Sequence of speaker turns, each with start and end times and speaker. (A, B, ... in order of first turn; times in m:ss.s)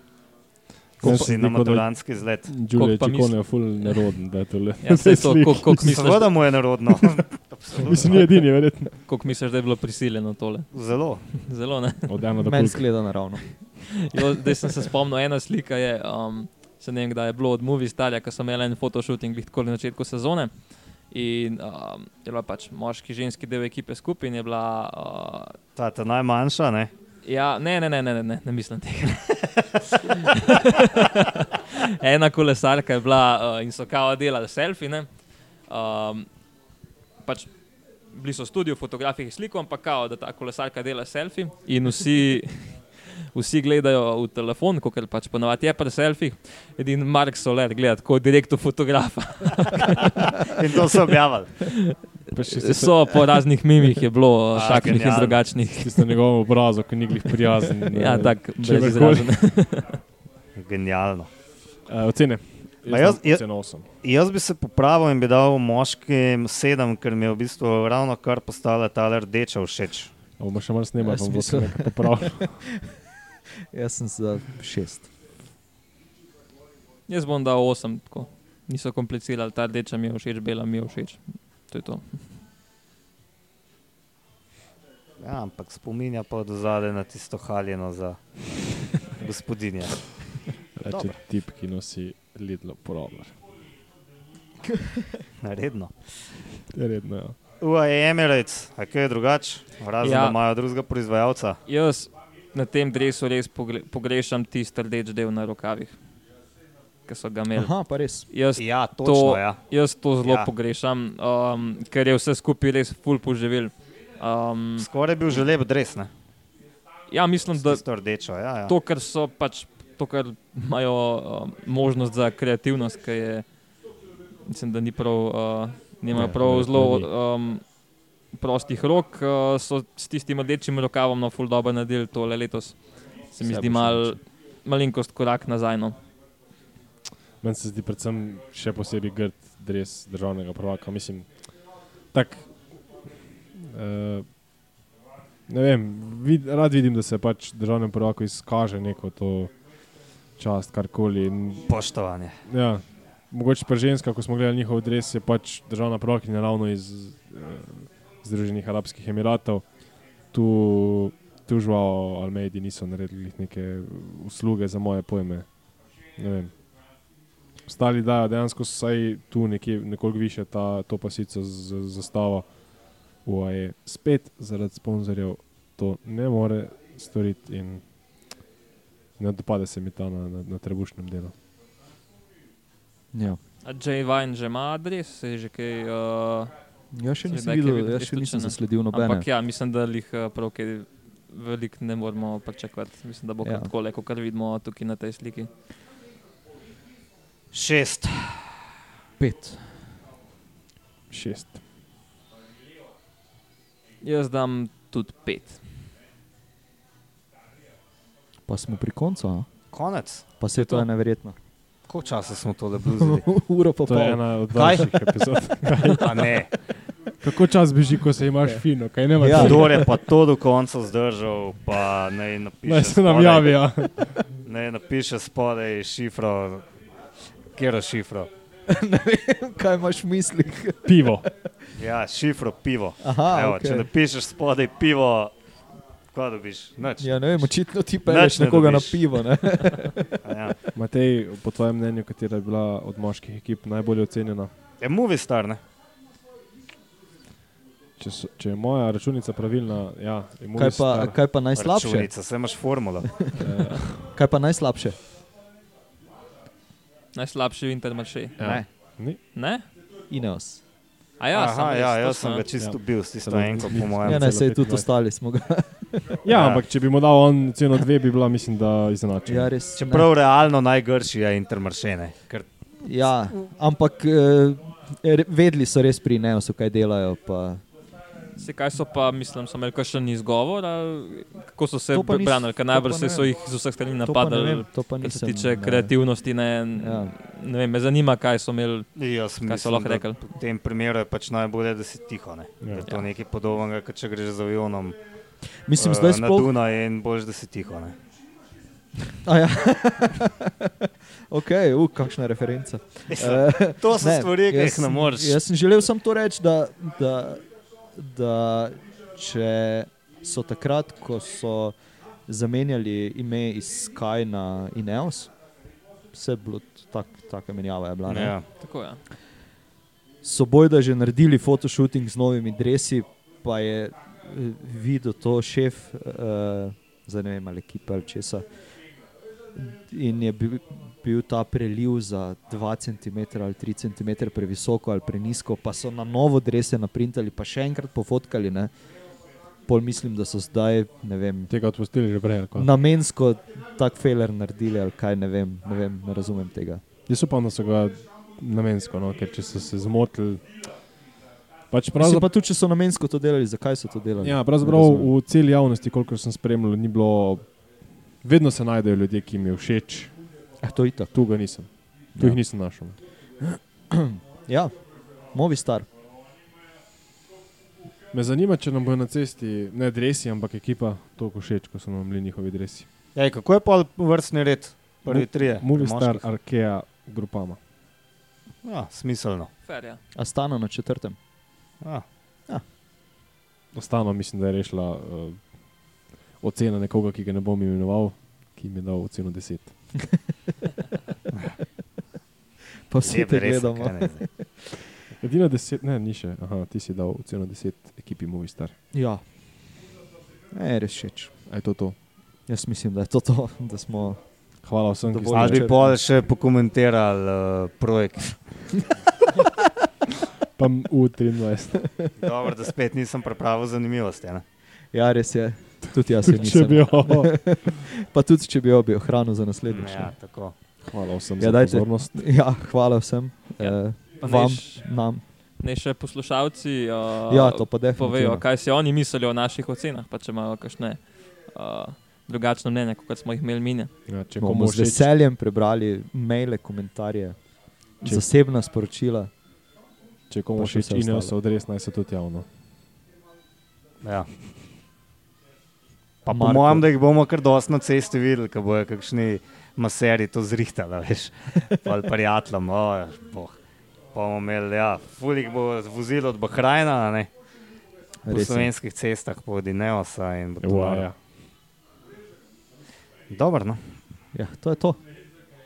0:01.0-0:01.9 A
0:01.0-0:02.5 B
0:01.0-0:01.3 C
0:02.4-0:06.0 A
0:02.7-0:04.1 D
0:04.8-0:06.3 D
0:05.8-0:08.3 B
0:07.8-0:09.0 A
0:09.0-0:10.7 D
0:10.7-0:11.3 B
0:11.3-0:12.1 D
0:12.1-0:12.8 A
0:12.4-0:13.6 C
0:14.0-0:20.5 D
0:21.1-0:25.6 D
0:25.8-0:26.9 B
0:27.2-0:35.1 D
0:35.7-0:36.3 D
0:37.2-0:37.5 D
0:38.1-0:50.4 D
0:49.9-0:51.7 B
0:51.7-0:56.1 D
0:52.3-0:53.3 A
0:54.5-0:55.5 B
0:55.6-0:59.6 A
0:57.9-1:00.0 D
1:00.6-1:01.3 B
1:01.9-1:03.9 A
1:02.9-1:10.1 B
1:10.4-1:12.7 A
1:11.0-1:12.7 C
1:13.7-1:15.1 C
1:17.1-1:22.2 D
1:25.2-1:30.2 B
1:30.8-1:33.4 A
1:30.8-1:31.2 B
1:34.7-1:35.0 C
1:35.4-1:36.1 B
1:36.7-1:37.4 A
1:37.6-1:41.6 B
1:40.0-1:40.4 D
1:41.7-1:46.0 D
1:47.1-1:47.7 D
1:47.5-1:48.3 C
1:48.3-1:54.9 D
1:48.6-1:49.6 B
1:50.2-1:50.5 B
1:54.8-1:56.1 B
1:57.1-1:57.8 D
1:57.5-1:58.7 B
1:58.7-2:03.4 D
2:04.4-2:07.6 D
2:06.1-2:07.1 A
2:08.4-2:16.0 D
2:13.4-2:14.2 A
2:17.4-2:21.6 A
2:22.1-2:22.8 A
2:23.6-2:24.4 A
2:25.5-2:29.5 A
2:30.4-2:31.7 A
2:31.7-2:32.4 B
2:32.5-2:39.7 A
2:40.3-2:45.5 A
2:46.2-2:46.6 A
2:47.7-2:57.9 A
2:59.2-3:01.4 A
3:03.1-3:03.4 C
3:03.6-3:06.5 D
3:06.9-3:09.3 C
3:07.2-3:15.5 D
3:13.4-3:13.7 C
3:17.5-3:18.7 B
3:19.2-3:19.9 C
3:21.1-3:21.6 A
3:24.0-3:25.6 D
3:28.5-3:29.5 C
3:29.7-3:30.3 B
3:30.4-3:31.4 C
3:30.6-3:30.8 D
3:31.9-3:33.3 B
3:33.0-3:34.2 C
3:33.8-3:36.5 A
3:34.5-3:34.9 B
3:36.0-3:36.6 B
3:37.2-3:39.9 A
3:39.2-3:40.0 C
3:39.3-3:43.6 B
3:42.6-3:44.3 A
3:44.4-3:46.6 B
3:47.5-3:48.3 B
3:48.7-3:51.1 C
3:50.8-3:51.3 A
3:51.8-3:55.3 B
3:53.0-3:53.9 C
3:56.1-3:57.5 B
3:57.0-4:00.4 C
3:58.0-3:59.0 B
4:00.2-4:00.6 B
4:00.7-4:04.5 A
4:04.8-4:05.6 B
4:08.0-4:11.2 A
4:10.6-4:12.1 C
4:11.6-4:13.2 B
4:13.4-4:14.1 A
4:14.0-4:15.0 C
4:17.1-4:18.4 D
4:18.4-4:19.2 A
4:18.4-4:18.7 C
4:19.3-4:19.7 D
4:20.1-4:20.6 C
4:21.2-4:22.4 D
4:21.3-4:24.3 B
4:22.6-4:24.9 A
4:24.0-4:26.2 C
4:26.2-4:29.5 A
4:26.3-4:26.6 B
4:29.3-4:30.1 C
4:29.8-4:32.5 B
4:32.8-4:37.6 C
4:38.4-4:48.9 D
4:41.9-4:43.3 C
4:44.0-4:45.9 C
4:46.8-4:47.2 C
4:49.0-4:55.0 B
4:49.4-4:50.2 D
4:52.8-4:53.1 D
4:55.6-4:56.5 C
4:55.8-4:58.0 B
4:59.2-5:07.4 C
5:03.1-5:05.4 B
5:07.9-5:11.8 C
5:12.3-5:15.3 C
5:16.1-5:18.4 C
5:18.1-5:18.4 B
5:18.6-5:19.0 D
5:20.2-5:28.5 C
5:29.5-5:38.7 C
5:39.7-5:41.5 C
5:41.5-5:42.7 A
5:42.5-5:46.8 C
5:47.1-5:50.5 A
5:51.7-5:52.3 A
5:52.0-5:55.1 C
5:54.2-5:57.5 A
5:58.2-6:00.2 A
6:00.6-6:01.1 C
6:01.1-6:03.0 A
6:02.1-6:02.4 C
6:03.4-6:04.7 C
6:05.3-6:05.9 C
6:08.1-6:12.9 A
6:13.2-6:16.3 B
6:15.1-6:17.6 A
6:18.6-6:19.5 B
6:19.7-6:20.0 D
6:20.2-6:21.2 C
6:23.7-6:25.6 A
6:26.4-6:30.0 A
6:32.9-6:34.8 C
6:33.0-6:34.3 B
6:35.2-6:38.8 A
6:38.9-6:39.2 C
6:40.5-6:41.3 C
6:41.5-6:42.0 A
6:42.5-6:44.2 C
6:44.6-6:45.7 A
6:45.1-6:46.0 C
6:45.3-6:48.8 B
6:50.6-6:51.9 A
6:52.1-6:54.4 B
6:54.9-7:00.1 C
6:56.2-6:57.5 A
6:59.7-7:00.6 B
7:00.9-7:02.2 A
7:01.4-7:05.2 C
7:03.6-7:04.9 D
7:05.6-7:13.9 D
7:07.3-7:08.4 C
7:14.1-7:15.1 A
7:14.4-7:17.5 C
7:18.0-7:19.3 C
7:20.3-7:22.5 A
7:20.6-7:21.4 C
7:24.0-7:24.3 B
7:26.2-7:33.6 B
7:26.3-7:26.9 C
7:34.1-7:37.3 B
7:38.2-7:38.7 C
7:38.3-7:41.1 B
7:40.6-7:41.2 A
7:43.3-7:44.0 B
7:44.3-7:45.0 C